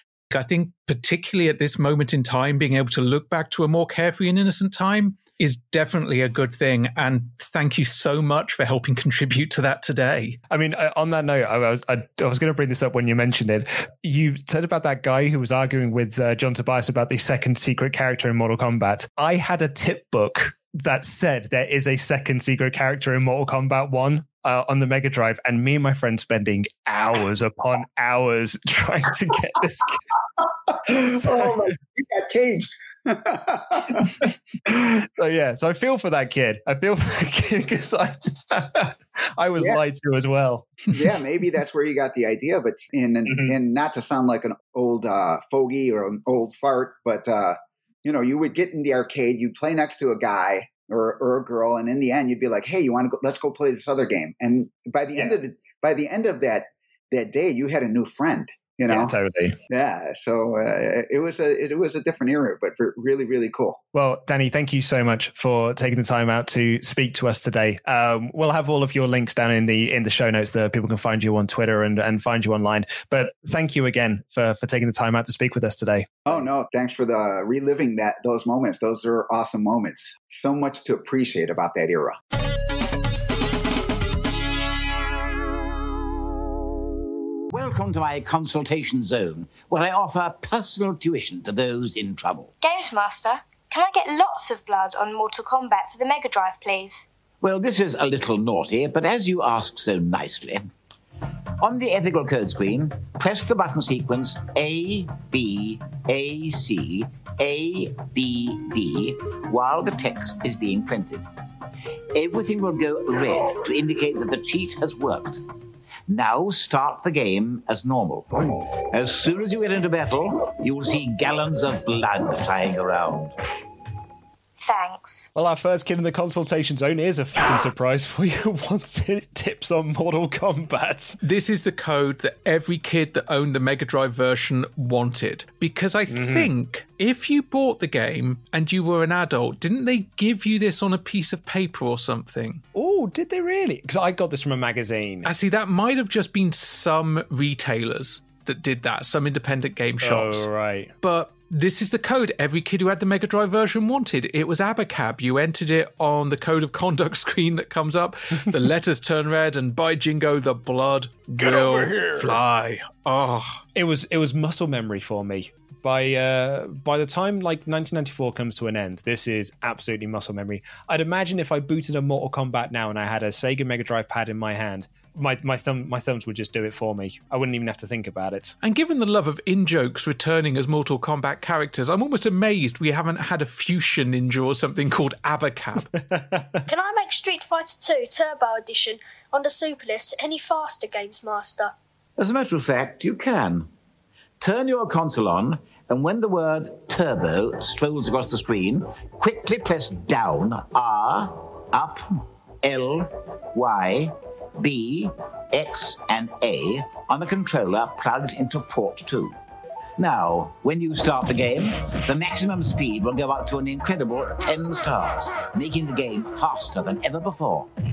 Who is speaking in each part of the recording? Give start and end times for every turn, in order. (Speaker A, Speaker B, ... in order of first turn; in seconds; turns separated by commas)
Speaker A: 0.3-10.4, Speaker B: 10.5-30.0, Speaker C: 30.9-34.1, Speaker B: 31.2-31.5, Speaker B: 34.9-40.8, Speaker C: 40.9-59.1, Speaker B: 43.3-43.5, Speaker B: 58.9-59.5, Speaker C: 59.7-63.8, Speaker B: 63.9-76.4, Speaker C: 76.3-82.2, Speaker D: 87.5-92.5, Speaker E: 92.6-97.1, Speaker D: 97.4-100.7, Speaker D: 101.6-111.2, Speaker D: 112.1-115.4, Speaker D: 116.1-123.3, Speaker E: 124.6-125.3, Speaker B: 125.3-131.2, Speaker A: 131.2-142.6, Speaker B: 136.1-136.5, Speaker B: 142.7-145.3, Speaker A: 145.2-150.5, Speaker B: 150.0-150.9, Speaker A: 151.0-163.6, Speaker B: 161.4-162.3, Speaker B: 163.7-178.6, Speaker A: 178.6-185.9, Speaker B: 185.9-186.6, Speaker F: 186.7-191.7, Speaker D: 192.2-193.7, Speaker D: 194.4-209.3, Speaker D: 210.0-217.7